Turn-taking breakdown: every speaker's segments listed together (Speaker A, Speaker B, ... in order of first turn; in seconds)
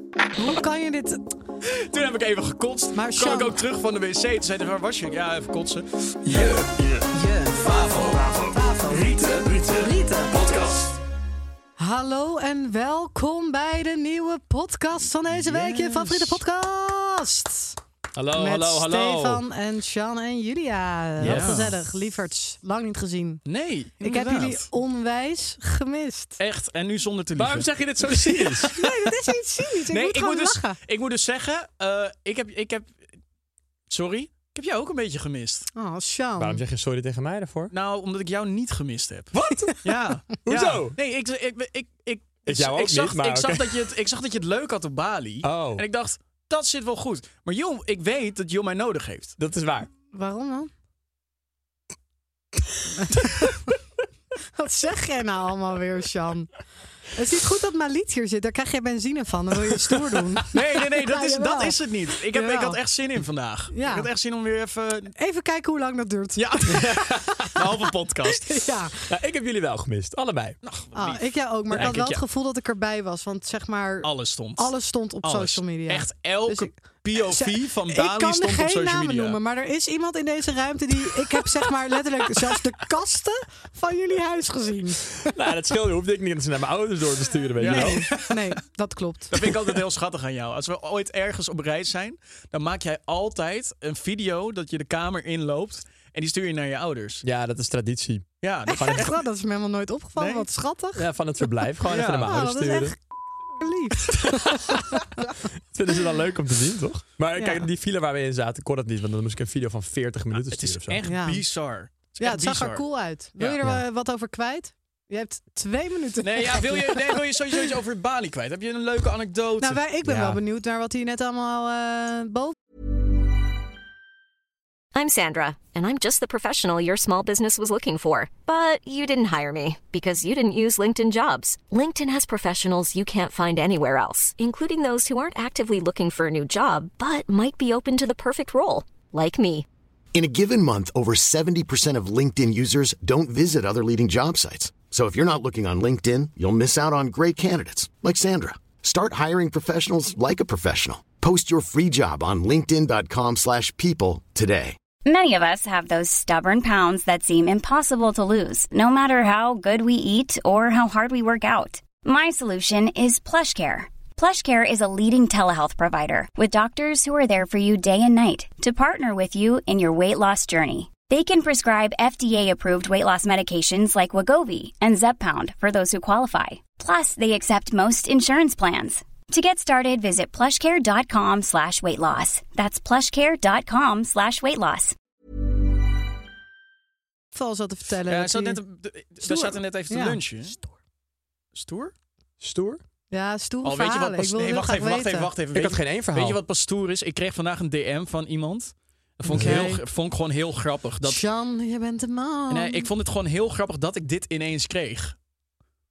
Speaker A: 0.4-1.2, 3.0-3.6, 7.2-7.7, 8.5-10.4, 11.8-17.8, 18.4-23.4, 24.0-26.4, 28.8-30.8, 35.8-36.6, 50.1-50.7, 53.0-53.6, 54.5-56.6, 57.1-62.8, 63.7-64.1, 65.2-67.5, 68.3-69.0, 71.0-85.3, 87.6-89.3, 98.8-101.1, 102.2-103.0, 103.6-105.4, 107.4-107.7, 111.0-111.5, 112.2-117.2, 119.6-122.6, 187.3-188.6, 189.2-190.7, 193.1-195.3, 199.3-199.8, 201.0-202.9
Speaker B: 1.6-6.5, 15.4-16.2, 21.2-21.7, 23.4-24.7, 26.4-28.9, 29.9-33.1, 33.9-35.7, 37.7-49.4, 60.5-65.1, 66.4-68.5, 70.6-72.2, 74.0-79.4, 87.6-88.4, 89.3-97.2, 98.4-99.2, 100.2-100.5, 101.9-102.3, 110.3-112.8, 116.2-119.8, 188.1-190.6, 191.5-191.9, 193.6-201.2, 202.5-205.2
Speaker C: 6.2-10.8, 15.6-16.4, 18.2-19.4, 21.2-21.8, 27.4-28.8, 36.4-37.7, 39.3-39.8, 40.4-41.0, 42.5-43.7, 45.4-45.9, 49.4-49.9, 60.0-60.3, 66.7-67.5, 69.1-70.6, 85.2-88.1, 97.2-99.1, 101.0-103.0, 104.7-105.0, 105.7-111.0, 113.6-113.8, 120.0-120.4, 192.4-192.8, 195.5-196.4, 199.3-199.7
Speaker D: 124.9-139.7
Speaker E: 140.1-154.8
Speaker F: 155.1-184.9